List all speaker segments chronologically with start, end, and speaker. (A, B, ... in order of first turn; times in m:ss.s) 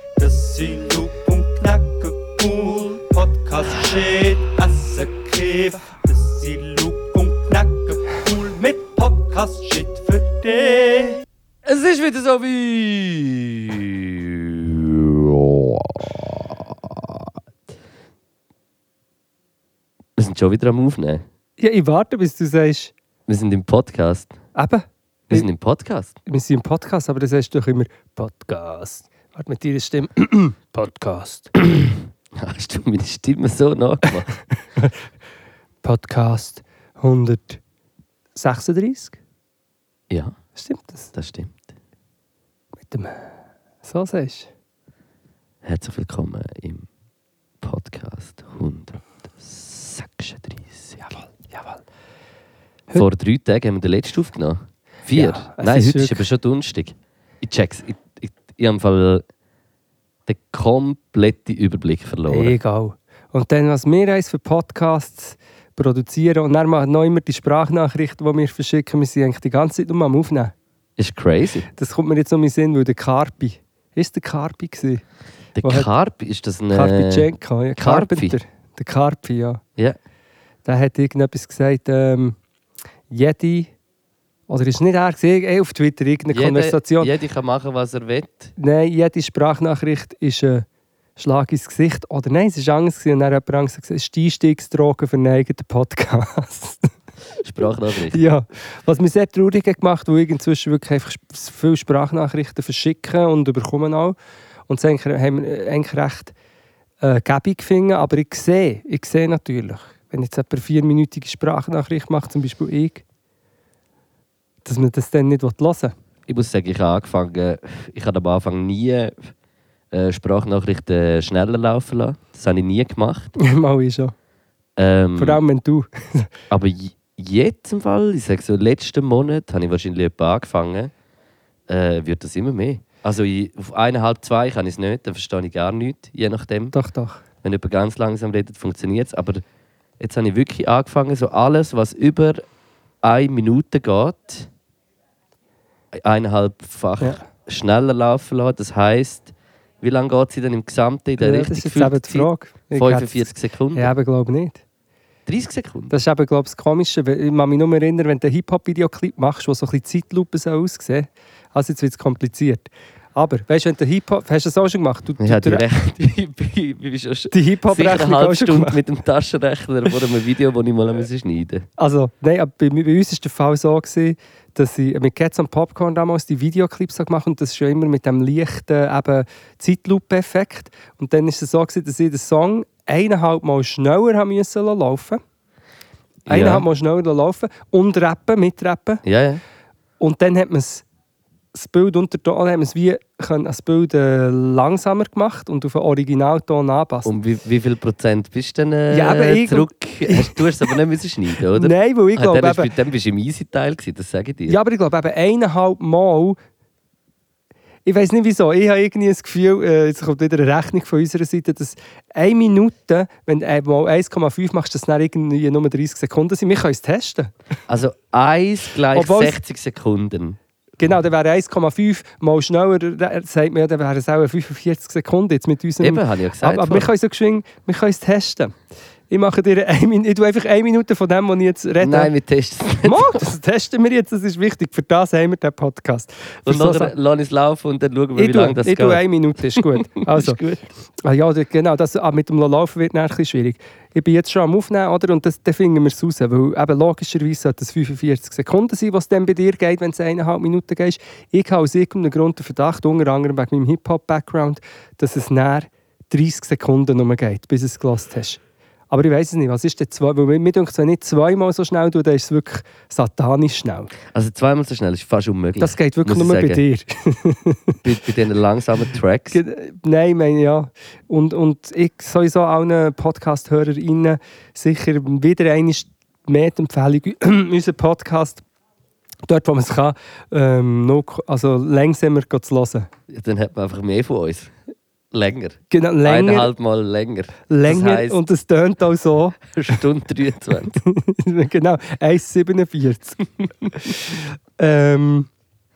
0:00.2-0:11.1 A
0:11.6-0:17.3 B
0:20.2-0:21.2 B
0:21.6-0:22.9 C
0:23.3-0:24.4 B
0:24.6-0:25.5 C
0:25.3-0:26.2 B
0:26.3-0:31.5 C
0:31.6-0:34.3 B
0:35.8-0:37.6 C
0:38.4-0:39.2 C
0:40.1-0:40.4 B
0:40.6-0:41.1 C
0:41.2-0:41.7 B
0:42.8-0:43.3 C
0:43.8-0:44.5 C
0:45.6-0:46.9 B
0:47.6-0:51.0 B
0:51.0-0:51.8 C
0:52.9-0:59.2 B
0:55.2-0:56.3 C
1:00.3-1:02.6 B
1:02.3-1:10.5 C
1:11.0-1:11.7 B
1:11.8-1:15.0 C
1:15.6-1:18.4 B
1:15.6-1:15.9 C
1:16.7-1:19.6 C
1:20.6-1:22.4 C
1:23.1-1:23.7 C
1:24.5-1:27.1 C
1:26.3-1:28.5 B
1:28.6-1:30.7 C
1:31.2-1:36.9 C
1:37.4-1:38.2 B
1:38.1-1:44.2 C
1:44.7-1:46.4 C
1:47.0-1:53.0 C
1:54.6-1:56.0 C
1:56.3-1:59.3 B
1:59.9-2:03.3 B
2:03.4-2:04.1 C
2:04.8-2:05.4 B
2:05.2-2:06.3 C
2:06.5-2:10.9 B
2:11.7-2:16.7 B
2:16.7-2:17.2 C
2:17.4-2:19.4 B
2:20.0-2:22.4 B
2:23.0-2:24.5 B
2:25.9-2:33.9 B
2:31.2-2:34.6 C
2:35.3-2:35.9 B
2:35.9-2:45.7 C
2:45.2-2:51.7 B
2:47.3-2:48.8 C
2:51.8-3:05.2 C
3:06.3-3:09.0 C
3:06.3-3:06.6 B
3:09.0-3:09.4 B
3:10.0-3:10.8 C
3:11.5-3:17.1 C
3:17.0-3:24.6 B
3:18.9-3:20.4 C
3:21.5-3:22.7 C
3:24.5-3:26.4 C
3:27.8-3:37.3 C
3:37.7-3:40.4 B
3:38.9-3:39.4 C
3:40.8-3:48.6 C
3:45.8-3:46.9 B
3:49.1-3:52.1 C
3:51.8-3:53.2 B
3:52.8-3:56.9 C
3:56.5-4:00.6 B
3:58.2-4:00.4 C
4:01.0-4:23.9 C
4:24.1-4:26.6 B
4:25.6-4:27.8 C
4:27.8-4:29.4 B
4:29.3-4:38.4 C
4:39.3-4:42.9 C
4:43.1-4:44.5 B
4:45.1-4:48.2 B
4:45.7-4:46.5 C
4:47.5-4:49.8 C
4:49.5-4:50.8 B
4:50.8-4:55.3 C